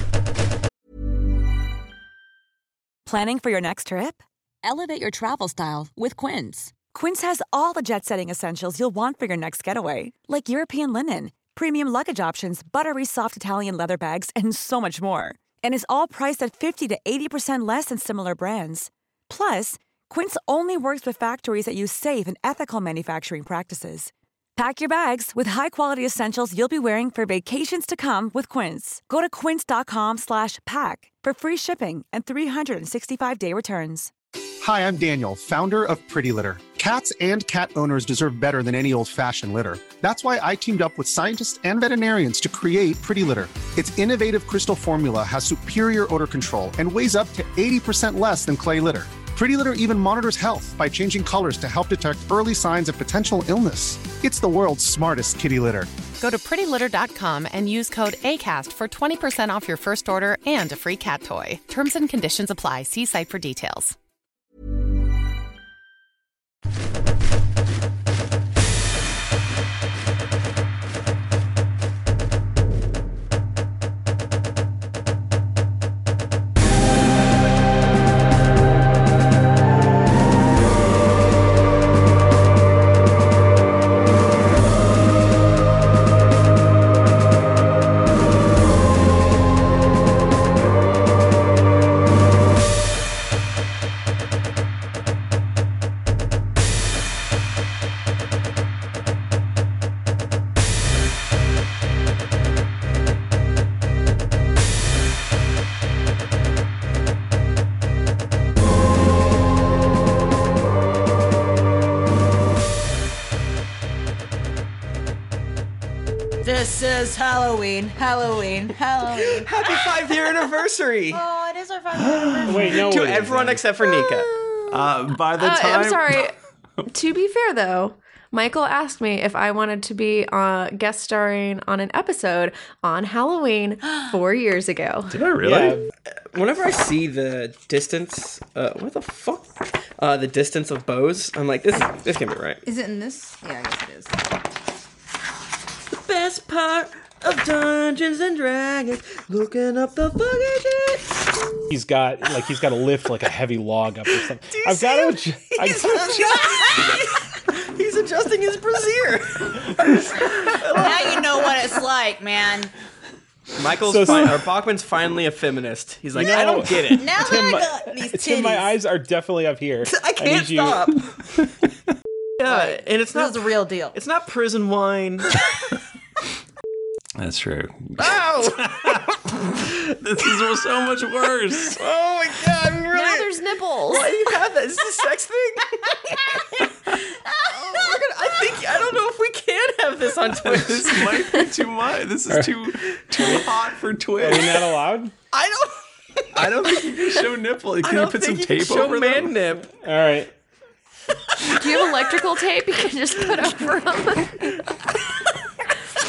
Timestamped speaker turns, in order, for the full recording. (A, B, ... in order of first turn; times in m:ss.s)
0:03.0-0:34.1 A
0:34.6-0:55.9 B
0:56.2-1:04.0 C
1:56.4-2:00.5 D
1:59.1-2:01.2 E
2:01.1-2:02.9 D
2:02.0-2:02.7 F
2:02.4-2:03.6 G
2:02.6-2:04.3 E
2:03.8-2:06.3 H
2:04.7-2:06.3 F
2:06.9-2:15.2 H
2:15.1-2:15.8 F
2:15.4-2:15.8 G
2:16.3-2:22.6 E
2:22.6-2:24.4 D
2:25.9-2:31.2 E
2:31.7-2:36.3 G
2:34.5-2:41.6 E
2:35.9-2:37.1 D
2:40.7-2:42.7 D
2:43.6-2:47.6 E
2:43.8-2:44.4 G
2:46.1-2:50.9 G
2:47.0-2:48.7 D
2:49.8-2:51.0 D
2:52.4-2:55.4 E
2:52.4-2:54.0 D
2:57.2-3:01.8 F
2:58.0-2:59.0 E
3:01.7-3:03.3 E
3:02.9-3:04.2 H
3:03.8-3:06.4 E
3:07.2-3:08.0 D
3:07.4-3:11.1 E
3:10.3-3:14.7 F
3:14.2-3:15.1 G
3:15.3-3:15.8 E
3:16.3-3:19.4 F
3:16.8-3:17.2 E
3:17.8-3:19.7 E
3:19.7-3:20.3 G
3:21.5-3:24.5 H